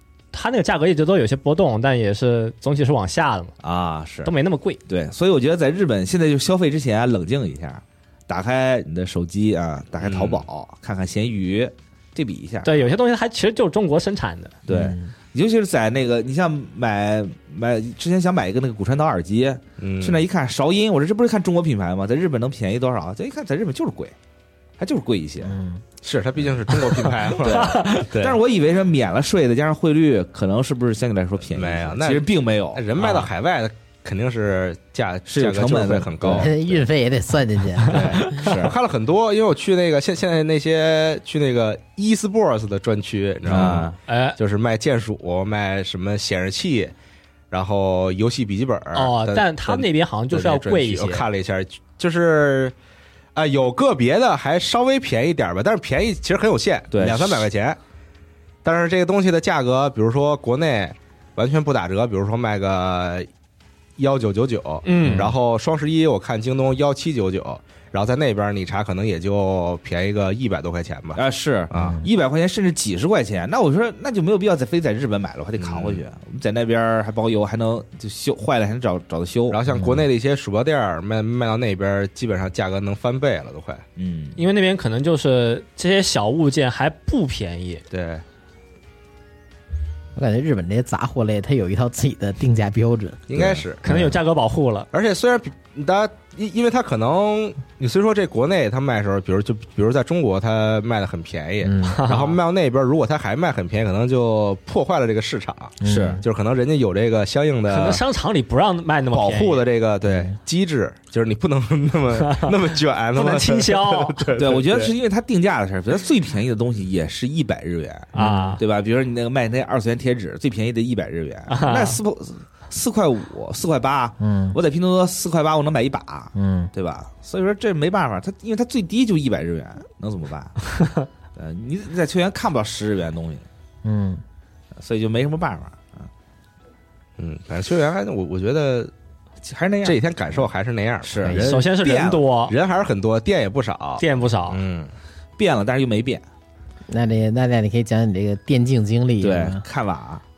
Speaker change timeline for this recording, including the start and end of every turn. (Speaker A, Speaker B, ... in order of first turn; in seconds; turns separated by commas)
Speaker A: 0.3-3.5, Speaker B: 3.6-4.3, Speaker A: 4.2-4.8, Speaker B: 4.9-12.8, Speaker C: 10.1-10.4, Speaker A: 12.6-14.6, Speaker B: 14.7-24.1, Speaker D: 14.7-15.1, Speaker C: 19.8-20.2, Speaker B: 24.8-25.6, Speaker D: 25.4-25.8, Speaker C: 26.0-28.4, Speaker B: 27.4-32.9, Speaker A: 27.5-28.1, Speaker C: 31.5-36.8, Speaker A: 33.0-33.3, Speaker B: 35.3-36.5, Speaker D: 36.2-38.5, Speaker C: 37.9-46.9, Speaker B: 38.1-38.8, Speaker B: 43.5-44.0, Speaker A: 44.1-44.4, Speaker C: 47.5-52.7, Speaker A: 48.9-51.3, Speaker C: 53.3-57.8, Speaker B: 56.9-57.5, Speaker C: 58.6-63.3, Speaker C: 64.0-72.0, Speaker A: 64.8-65.3, Speaker D: 65.0-65.3, Speaker B: 71.1-79.6, Speaker D: 71.7-72.0, Speaker C: 75.6-76.0, Speaker C: 79.5-83.8, Speaker D: 79.7-80.0, Speaker B: 84.0-84.4, Speaker A: 84.4-87.8, Speaker B: 87.9-88.2, Speaker D: 90.1-93.3, Speaker C: 93.3-93.8, Speaker B: 93.3-93.6, Speaker A: 93.8-94.9, Speaker D: 93.8-94.1, Speaker C: 94.9-108.0, Speaker D: 101.6-102.0, Speaker A: 101.8-102.4, Speaker D: 105.8-106.2, Speaker B: 105.8-106.2, Speaker A: 107.7-109.6, Speaker C: 109.1-114.9, Speaker D: 110.0-110.3, Speaker A: 112.2-112.5, Speaker A: 113.1-114.3, Speaker B: 114.4-130.6, Speaker D: 118.1-118.6, Speaker A: 118.1-118.6, Speaker A: 121.5-122.0, Speaker D: 124.2-124.6, Speaker D: 126.3-126.7, Speaker B: 131.3-133.4, Speaker D: 133.8-134.2, Speaker B: 134.8-136.1, Speaker C: 137.2-138.9, Speaker B: 139.4-140.4, Speaker C: 139.8-141.7, Speaker B: 141.0-142.2, Speaker A: 141.4-142.5, Speaker C: 142.5-144.9, Speaker A: 144.0-144.6, Speaker B: 145.4-146.2, Speaker D: 146.9-149.6, Speaker B: 149.2-150.2